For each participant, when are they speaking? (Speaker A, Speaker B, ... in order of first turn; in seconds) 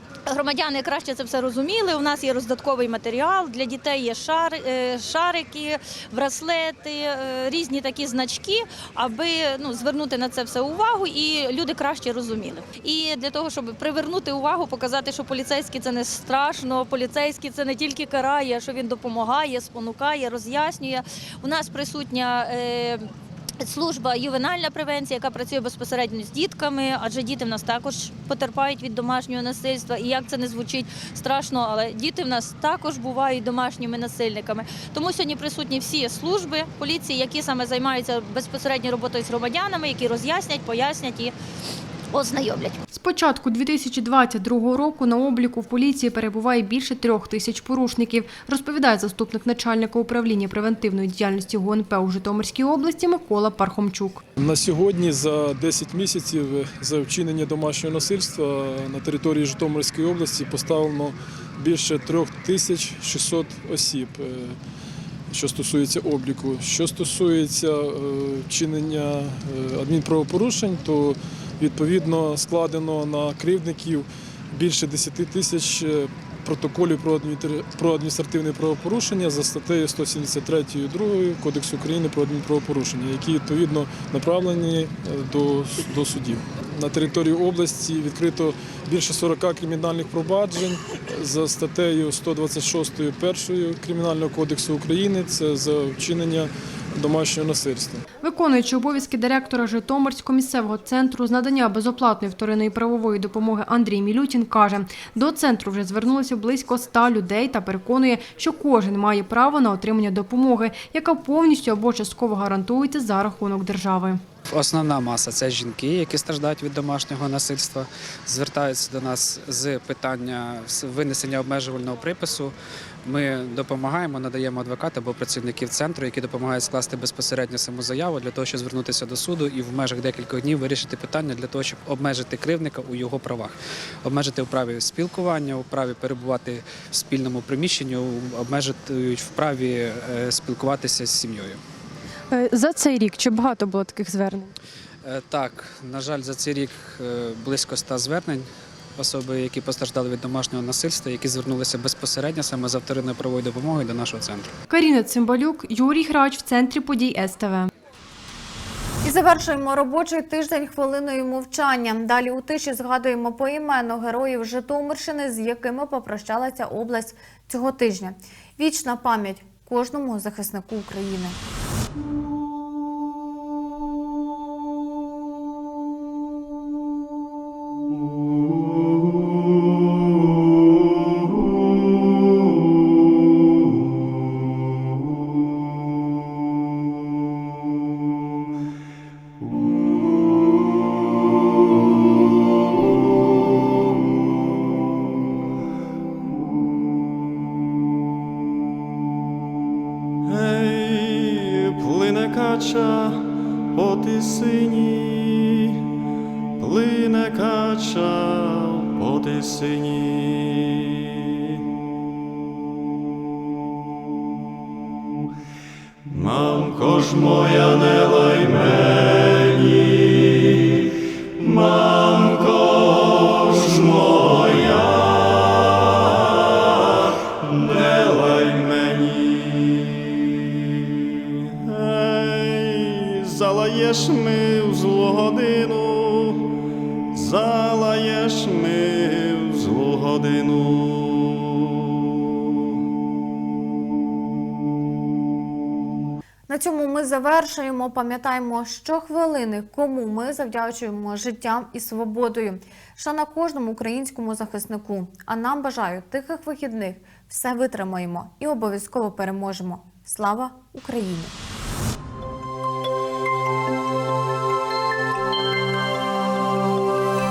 Speaker A: 0.3-23.1, 23.6-41.3, 42.1-42.8
Speaker B: 42.9-54.2, 98.2-114.2, 142.3-144.5, 154.7-157.7
Speaker C: 54.4-64.6, 65.3-98.0
Speaker D: 114.5-122.5, 123.0-141.6, 145.0-154.5
Speaker E: 159.0-171.4, 246.5-261.4
Speaker F: 200.3-203.2, 203.8-205.6, 206.6-210.8, 216.1-220.2, 221.4-225.4, 227.5-230.1, 231.7-236.4, 237.2-241.4